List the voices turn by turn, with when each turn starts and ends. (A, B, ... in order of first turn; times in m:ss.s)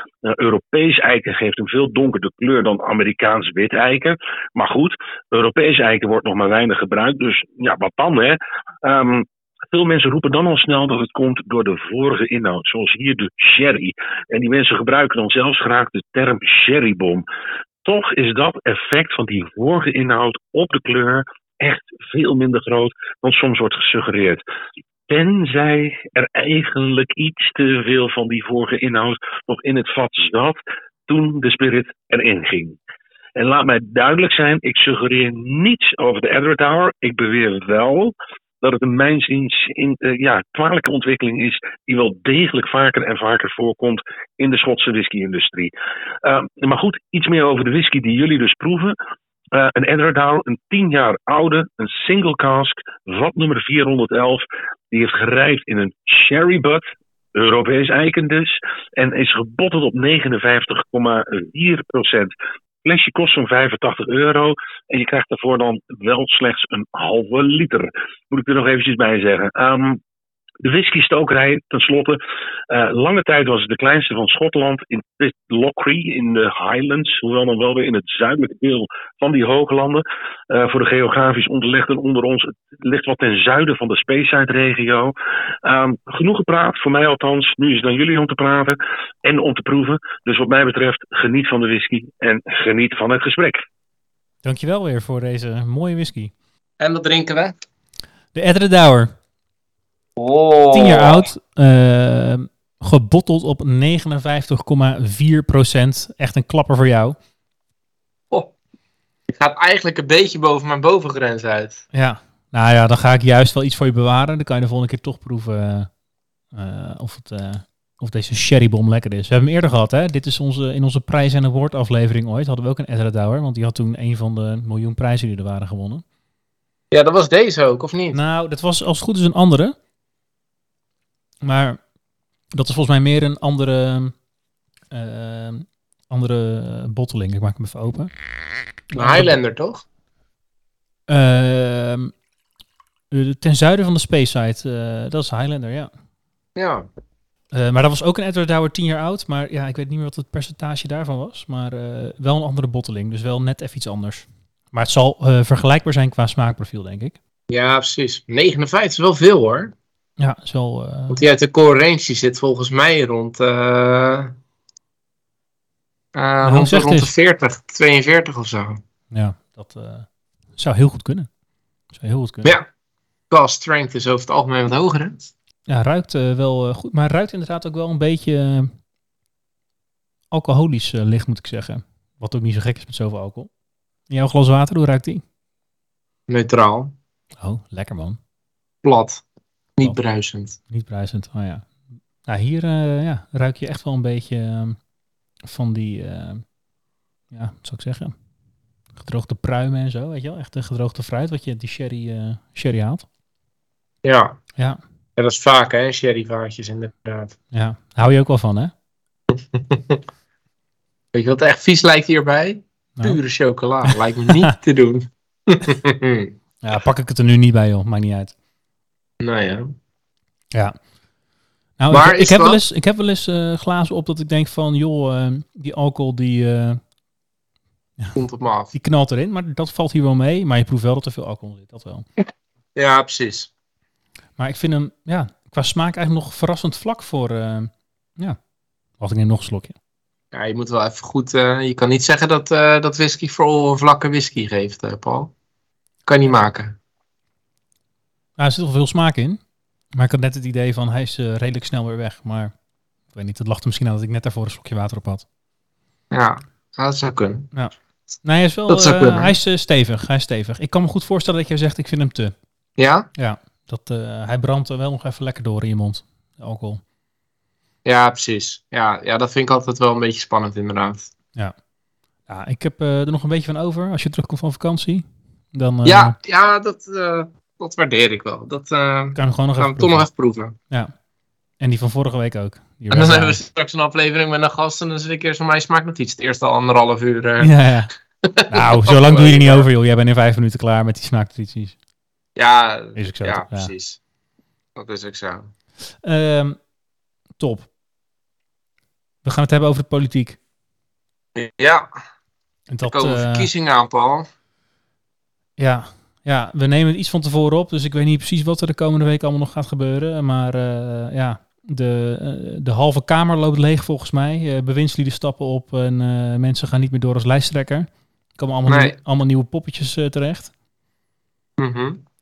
0:00.2-0:17.2 A
0:17.8-0:24.4 A
0:25.1-0:32.8 A
0:33.4-0:45.7 A
0:46.2-0:48.9 A
0:49.5-0:56.8 A
0:57.3-1:02.3 A
1:02.8-1:10.0 A
1:10.6-1:12.2 A
1:12.7-1:25.1 A
1:25.6-1:33.6 A
1:34.4-1:36.3 B
1:36.8-1:37.5 C
1:38.3-1:39.1 B
1:40.2-1:41.2 C
1:40.7-1:47.2 B
1:49.3-1:51.8 C
1:51.9-1:55.9 B
1:56.5-2:06.0 B
2:06.9-2:08.2 C
2:08.1-2:09.7 B
2:11.4-2:11.8 B
2:12.5-2:14.2 B
2:14.9-2:18.1 B
2:18.9-2:19.4 B
2:19.0-2:19.8 C
2:21.1-2:22.1 B
2:23.1-2:25.9 B
2:26.6-2:26.8 C
2:27.5-2:37.2 B
2:37.5-2:39.7 C
2:40.2-2:41.2 B
2:41.1-2:44.3 C
2:46.1-2:48.8 C
2:46.4-2:47.1 B
2:49.1-2:51.3 B
2:51.9-2:52.6 B
2:53.3-2:55.2 C
2:55.7-2:58.7 B
3:00.3-3:03.5 B
3:04.1-3:05.2 B
3:06.3-3:06.9 C
3:07.4-3:08.2 B
3:08.8-3:09.2 C
3:09.8-3:10.6 C
3:10.7-3:11.7 B
3:12.2-3:14.8 B
3:15.4-3:16.4 B
3:17.3-3:18.1 B
3:18.9-3:23.1 B
3:24.0-3:24.4 C
3:25.2-3:27.3 C
3:27.5-3:28.7 B
3:29.3-3:30.0 C
3:31.1-3:36.3 C
3:33.8-3:34.5 B
3:36.6-3:38.3 B
3:39.2-3:39.7 C
3:41.8-3:46.8 B
3:41.9-3:42.6 C
3:48.2-3:48.7 C
3:48.7-3:52.0 B
3:52.8-3:53.5 C
3:54.4-3:58.4 B
3:59.0-3:59.8 B
4:00.3-4:05.3 C
4:06.0-4:06.8 C
4:08.4-4:09.4 B
4:10.0-4:12.5 B
4:13.1-4:15.2 B
4:16.1-4:17.5 C
4:18.2-4:22.3 B
4:18.7-4:19.3 C
4:22.8-4:23.1 C
4:23.2-4:26.8 B
4:27.8-4:31.1 C
4:32.3-4:36.2 B
4:35.8-4:40.6 C
4:39.2-4:40.0 B
4:41.6-4:43.4 B
4:42.9-4:47.5 C
4:47.4-4:47.9 B
4:48.2-4:49.7 C
4:48.5-4:51.8 B
4:52.4-4:54.0 C
4:53.0-4:53.7 B
4:54.8-4:55.5 C
4:56.0-4:56.6 B
4:57.4-4:57.7 B
4:59.2-5:00.4 B
5:01.3-5:01.9 C
5:02.7-5:03.5 B
5:02.8-5:04.3 C
5:05.6-5:20.5 B
5:18.7-5:19.0 C
5:21.6-5:22.0 C